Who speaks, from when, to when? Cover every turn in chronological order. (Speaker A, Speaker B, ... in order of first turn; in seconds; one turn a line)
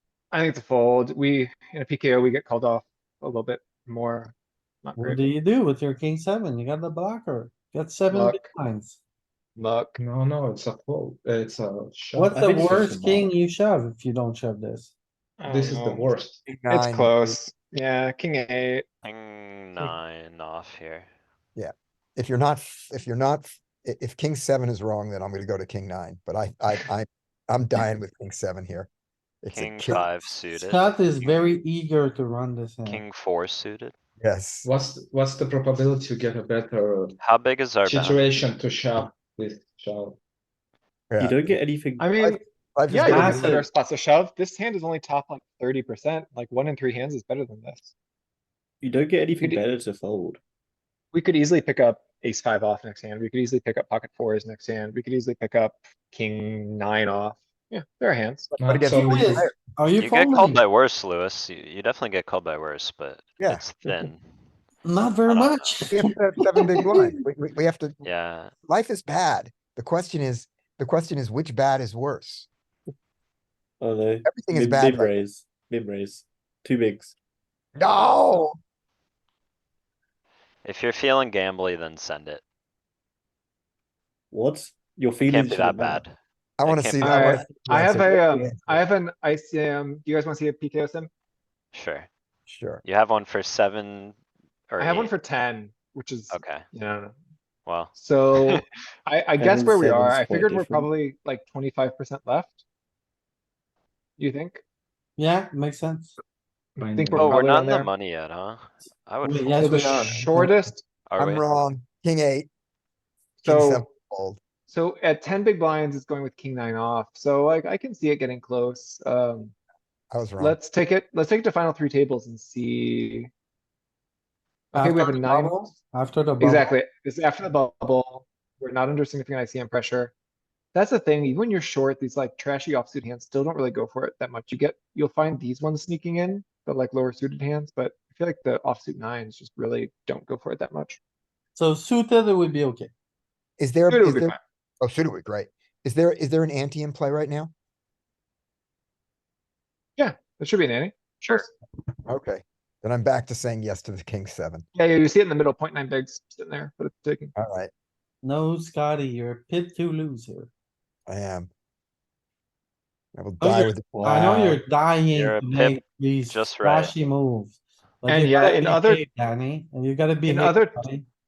Speaker A: 0.3-5.2
Speaker B: 5.0-9.0
Speaker A: 8.1-8.4
Speaker A: 9.6-10.0
Speaker C: 10.0-12.9
Speaker B: 12.1-14.9
Speaker D: 12.3-13.3
Speaker A: 15.4-16.1
Speaker C: 15.5-16.4
Speaker E: 16.4-17.4
Speaker A: 16.7-18.9
Speaker F: 19.0-21.1
Speaker E: 21.6-28.9
Speaker E: 29.4-30.1
Speaker F: 29.5-31.4
Speaker B: 30.5-33.0
Speaker F: 32.9-33.9
Speaker E: 34.2-34.7
Speaker C: 34.6-37.2
Speaker F: 37.2-38.2
Speaker C: 37.8-40.2
Speaker E: 41.1-41.5
Speaker D: 41.2-42.3
Speaker A: 42.0-47.9
Speaker E: 42.8-43.6
Speaker B: 43.0-43.7
Speaker D: 48.8-50.4
Speaker A: 51.1-58.5
Speaker E: 58.6-59.5
Speaker C: 58.6-59.5
Speaker B: 59.0-60.6
Speaker F: 60.0-64.3
Speaker B: 64.8-67.2
Speaker F: 65.2-65.8
Speaker E: 65.9-68.0
Speaker F: 68.0-68.5
Speaker E: 68.7-72.5
Speaker D: 73.8-77.2
Speaker E: 74.2-75.2
Speaker E: 77.8-78.6
Speaker F: 80.6-82.4
Speaker D: 84.3-86.0
Speaker F: 85.2-87.7
Speaker E: 86.6-88.8
Speaker A: 87.0-91.1
Speaker F: 91.7-92.1
Speaker E: 92.5-92.8
Speaker F: 92.8-94.2
Speaker F: 94.7-95.1
Speaker A: 94.8-97.2
Speaker F: 96.3-96.7
Speaker F: 97.7-98.6
Speaker A: 97.9-102.6
Speaker D: 99.4-100.9
Speaker A: 104.2-104.6
Speaker B: 105.2-106.2
Speaker C: 106.8-107.4
Speaker A: 106.8-107.9
Speaker F: 107.2-110.2
Speaker B: 109.2-110.7
Speaker A: 109.6-110.8
Speaker F: 111.1-111.5
Speaker E: 111.2-112.5
Speaker E: 113.4-114.4
Speaker A: 113.4-113.9
Speaker A: 114.7-119.5
Speaker E: 120.1-120.6
Speaker A: 120.4-123.3
Speaker A: 124.7-125.7
Speaker B: 124.8-126.7
Speaker A: 126.4-130.1
Speaker A: 130.8-141.0
Speaker B: 141.6-142.9
Speaker E: 143.6-147.5
Speaker A: 143.9-144.4
Speaker A: 150.0-151.5
Speaker E: 152.1-154.7
Speaker A: 154.8-157.3
Speaker E: 157.3-157.7
Speaker B: 158.2-160.5
Speaker E: 161.1-161.5
Speaker E: 163.2-164.5
Speaker B: 163.4-171.1
Speaker D: 163.9-164.6
Speaker F: 165.1-166.9
Speaker A: 168.1-169.0
Speaker A: 170.2-170.9